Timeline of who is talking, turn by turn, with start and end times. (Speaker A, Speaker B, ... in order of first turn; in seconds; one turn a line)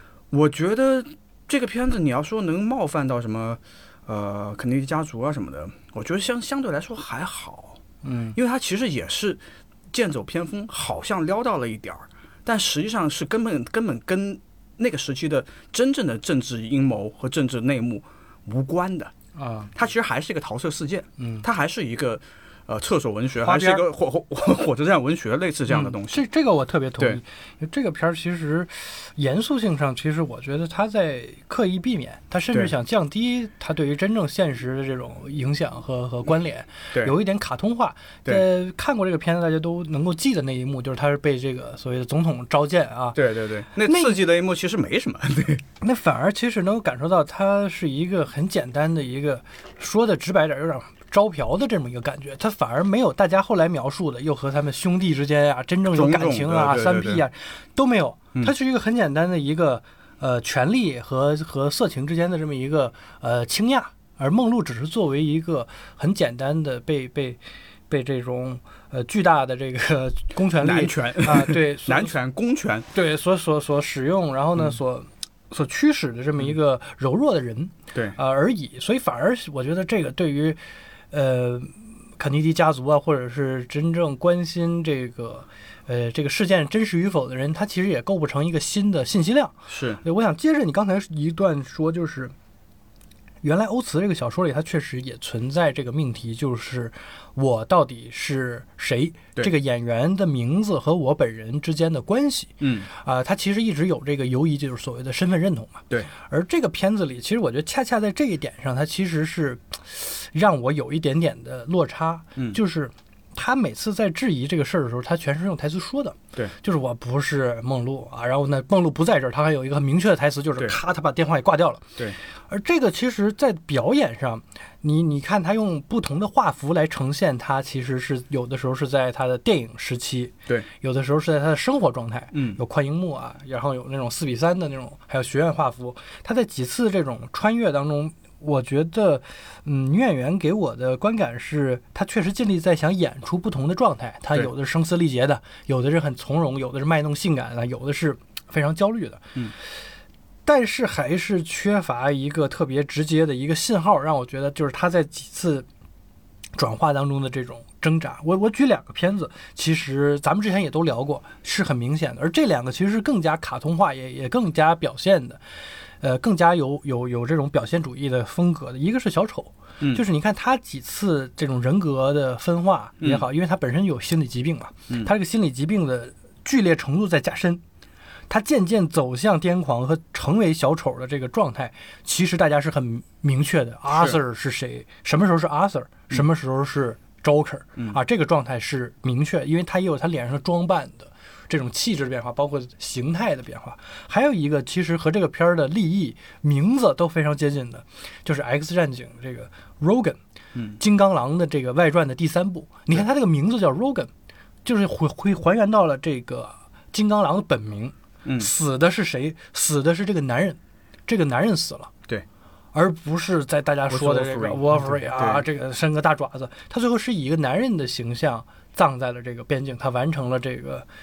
Speaker A: 0.3-7.8
Speaker B: 8.0-8.4
Speaker A: 8.3-19.1
Speaker B: 19.4-19.7
Speaker A: 19.8-26.2
Speaker B: 21.2-21.5
Speaker B: 23.4-23.9
Speaker B: 25.7-43.2
Speaker A: 43.1-45.6
Speaker B: 43.8-44.2
Speaker B: 45.8-72.2
Speaker A: 55.9-57.2
Speaker A: 70.6-72.9
Speaker B: 72.9-80.6
Speaker B: 81.1-92.3
Speaker A: 89.7-90.0
Speaker B: 93.4-121.9
Speaker A: 102.6-102.9
Speaker B: 122.5-149.4
Speaker A: 132.3-132.6
Speaker B: 150.5-155.7
Speaker B: 156.6-165.4
Speaker B: 166.0-177.6
Speaker A: 173.0-173.3
Speaker B: 178.3-200.2
Speaker A: 183.9-184.2
Speaker A: 200.6-200.8
Speaker B: 200.8-204.1
Speaker B: 204.6-211.9
Speaker A: 208.2-208.5
Speaker B: 212.7-220.9
Speaker A: 213.9-215.4